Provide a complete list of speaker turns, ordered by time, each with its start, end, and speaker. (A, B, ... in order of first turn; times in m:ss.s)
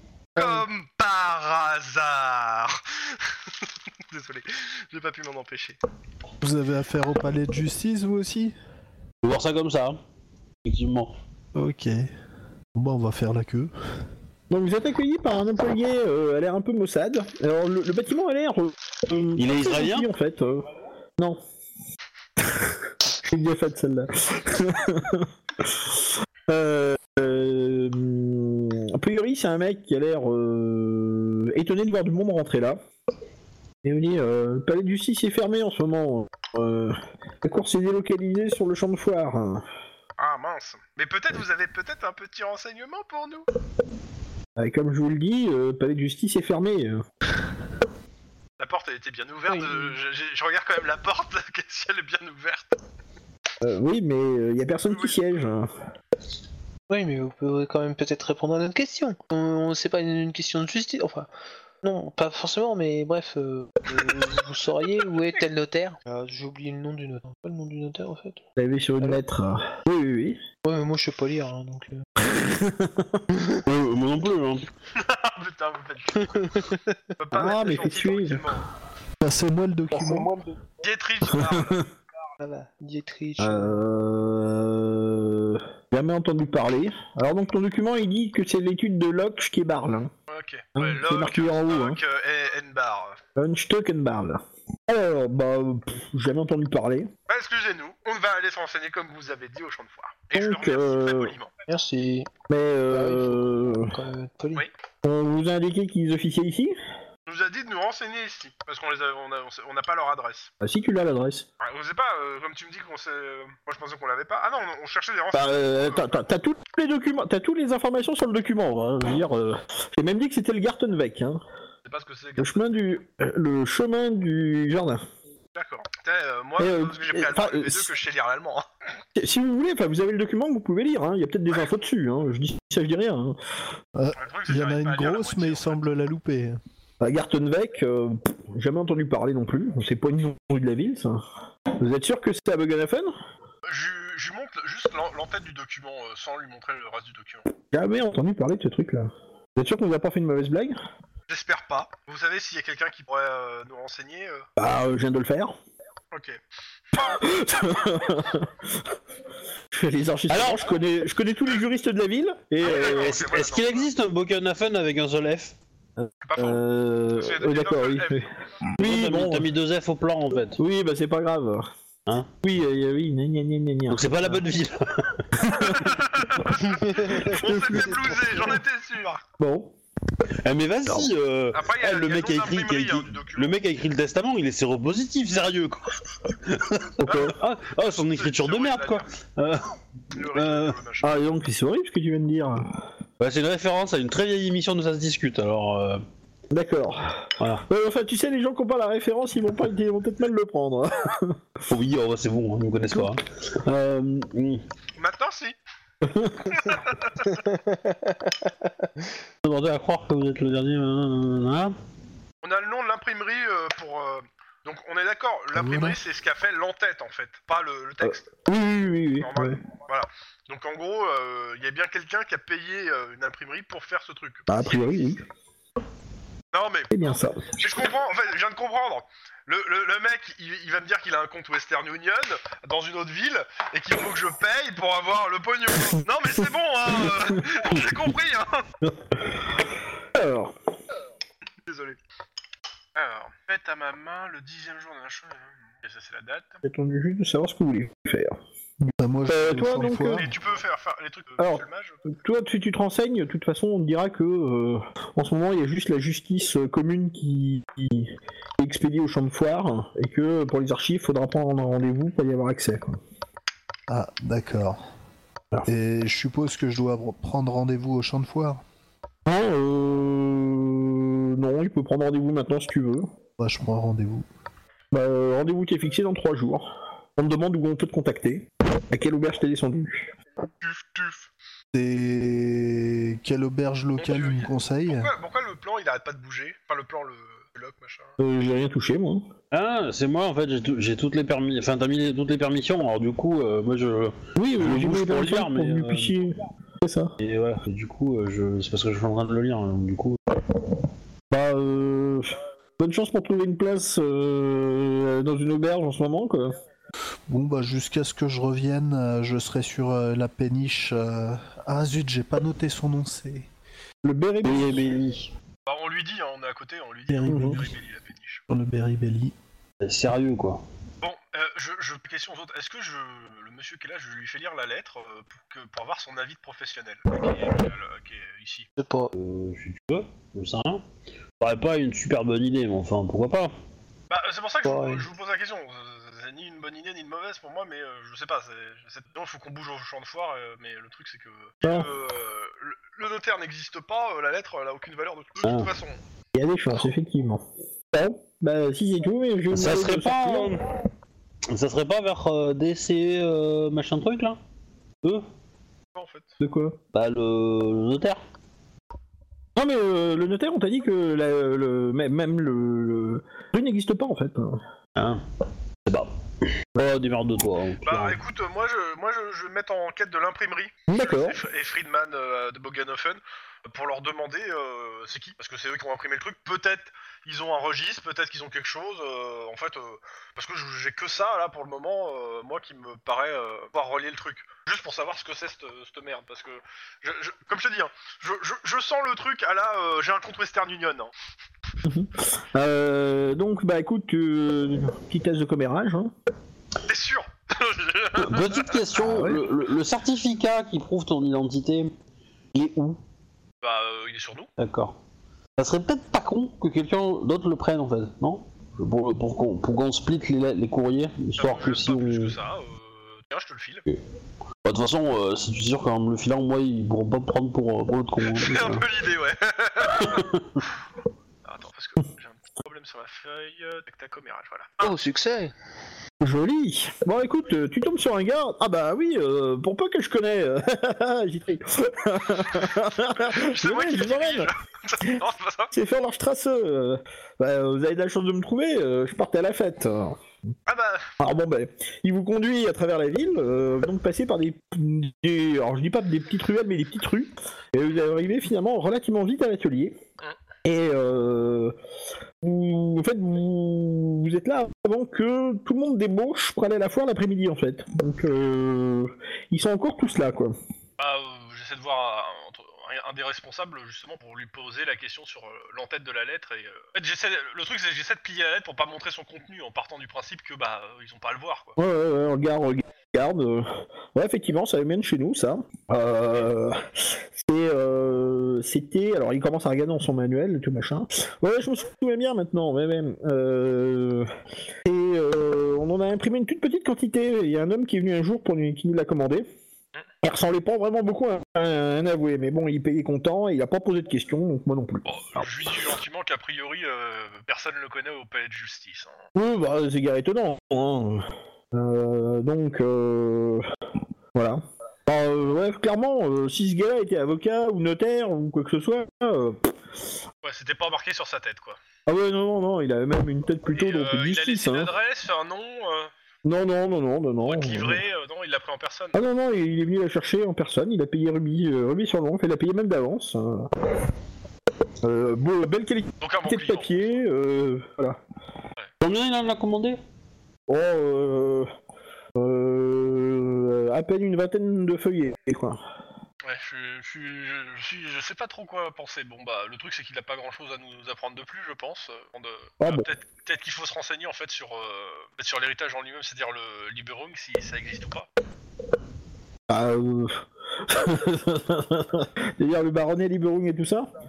0:00.4-0:05.8 A
0:06.4-0:08.5 B
0:09.2-0:10.0 C
0:10.6-0:11.1 C
0:11.6-0:12.1 B
0:12.7-0:13.7 B
0:14.5-0:20.6 D
0:19.4-0:20.1 C
0:22.4-0:32.8 D
0:33.8-0:39.6 D
0:40.2-0:43.4 A
0:44.6-0:47.0 D
0:48.6-0:52.8 A
0:49.5-0:49.9 E
0:53.6-0:55.7 D
0:54.9-0:55.2 A
0:56.9-1:01.3 E
1:01.8-1:08.4 E
1:08.6-1:10.4 D
1:10.6-1:12.0 E
1:12.2-1:13.2 D
1:13.3-1:13.6 E
1:13.6-1:14.7 C
1:14.9-1:16.6 A
1:17.2-1:18.6 A
1:17.3-1:18.5 D
1:19.2-1:20.3 B
1:19.9-1:20.5 E
1:20.8-1:21.9 A
1:22.4-1:23.8 E
1:23.4-1:30.1 D
1:30.3-1:33.2 A
1:30.8-1:32.0 D
1:33.4-1:37.1 D
1:37.3-1:41.5 A
1:40.3-1:41.3 D
1:41.7-1:42.3 E
1:42.5-1:44.0 D
1:42.9-1:44.6 E
1:45.0-1:46.7 D
1:47.2-1:50.5 A
1:50.6-1:51.5 D
1:51.6-1:56.2 A
1:55.3-2:01.4 D
2:01.8-2:02.8 A
2:02.4-2:05.0 D
2:05.5-2:08.6 A
2:06.6-2:07.9 D
2:09.1-2:13.4 D
2:14.0-2:16.6 B
2:14.2-2:15.8 A
2:17.0-2:21.2 D
2:21.7-2:23.1 D
2:23.7-2:27.5 A
2:27.7-2:30.8 D
2:31.3-2:34.5 A
2:34.6-2:35.6 D
2:36.1-2:36.4 A
2:37.0-2:38.7 D
2:39.7-2:43.2 D
2:40.3-2:40.6 C
2:42.6-2:43.9 A
2:42.6-2:45.5 C
2:46.0-2:49.5 D
2:46.2-2:46.6 A
2:47.1-2:48.2 A
2:48.8-2:50.6 C
2:50.6-2:51.7 D
2:52.4-2:54.4 D
2:53.9-2:55.7 C
2:55.4-2:55.9 D
2:55.6-2:59.2 A
2:56.8-2:57.3 E
2:57.1-2:58.4 D
2:59.4-2:59.7 D
3:00.4-3:09.7 C
3:01.5-3:03.6 A
3:07.0-3:07.3 D
3:07.0-3:07.4 A
3:07.9-3:09.1 A
3:10.1-3:11.2 A
3:10.3-3:10.8 C
3:11.0-3:12.6 D
3:13.2-3:16.0 C
3:16.5-3:21.4 D
3:17.4-3:17.6 C
3:21.7-3:24.6 C
3:25.0-3:25.6 A
3:26.0-3:26.6 D
3:26.5-3:27.4 A
3:27.4-3:28.5 E
3:29.4-3:31.7 C
3:32.4-3:38.3 A
3:38.0-3:39.6 D
3:39.2-3:45.2 A
3:44.5-3:45.2 D
3:46.5-3:46.9 A
3:46.9-3:47.5 D
3:47.5-3:58.6 A
4:00.1-4:00.5 D
4:01.6-4:02.0 A
4:03.0-4:06.6 A
4:06.6-4:10.3 D
4:09.0-4:10.3 B
4:10.1-4:12.0 A
4:11.4-4:23.0 D
4:23.9-4:24.8 B
4:25.6-4:28.6 B
4:29.2-4:33.1 D
4:33.4-4:34.2 B
4:34.9-4:40.1 D
4:40.6-4:41.3 A
4:41.7-4:45.1 B
4:44.0-4:48.1 A
4:48.2-4:49.2 D
4:49.5-4:56.1 C
4:54.3-4:57.1 D
4:57.2-5:00.2 C
5:01.3-5:06.5 D
5:07.3-5:13.5 B
5:14.0-5:14.9 D
5:14.4-5:15.3 C
5:15.6-5:18.4 A
5:17.1-5:17.7 B
5:17.3-5:17.6 D
5:18.5-5:19.3 B
5:19.8-5:20.6 C
5:21.0-5:28.7 A
5:28.8-5:29.1 E
5:29.1-5:30.8 C
5:31.4-5:33.5 C
5:34.1-5:46.0 A
5:34.6-5:35.0 E
5:41.6-5:41.9 D
5:45.4-5:45.7 C
5:46.3-5:50.6 D
5:49.5-5:50.6 C
5:51.5-5:54.4 C
5:55.9-5:56.3 A
5:56.4-5:56.8 D
5:56.9-5:58.2 C
5:59.6-6:04.6 D
6:05.0-6:05.2 C
6:06.7-6:08.2 C
6:07.8-6:31.1 A
6:10.9-6:11.4 D
6:31.8-6:36.1 D
6:36.8-6:38.8 A
6:38.1-6:41.9 C
6:39.0-6:39.4 D
6:42.5-6:43.0 D
6:43.6-6:44.5 A
6:44.6-6:45.0 C
6:45.6-6:52.3 C
6:51.4-6:53.8 A
6:54.6-6:58.9 C
6:58.3-7:00.3 A
6:59.8-7:00.5 C
7:01.4-7:04.9 A
7:04.8-7:05.5 E
7:06.2-7:14.5 D
7:13.2-7:15.7 A
7:15.7-7:20.2 D
7:20.7-7:21.1 A
7:21.2-7:30.0 D
7:30.6-7:31.7 D
7:32.4-7:40.6 D
7:41.0-7:51.8 A
7:51.8-8:04.3 D
8:04.8-8:09.4 D
8:10.2-8:15.7 D
8:15.0-8:19.2 A
8:19.3-8:23.6 D
8:24.3-8:29.7 D
8:30.4-8:31.8 A
8:32.1-8:34.9 D
8:33.7-8:36.1 A
8:36.4-8:38.0 D
8:37.4-8:39.2 A
8:39.1-8:43.8 D
8:45.0-8:48.2 D
8:46.2-8:46.9 A
8:49.0-8:50.0 C
8:50.7-8:51.7 D
8:52.4-8:55.8 D
8:56.4-9:08.3 A
9:02.8-9:03.1 D
9:09.7-9:14.1 D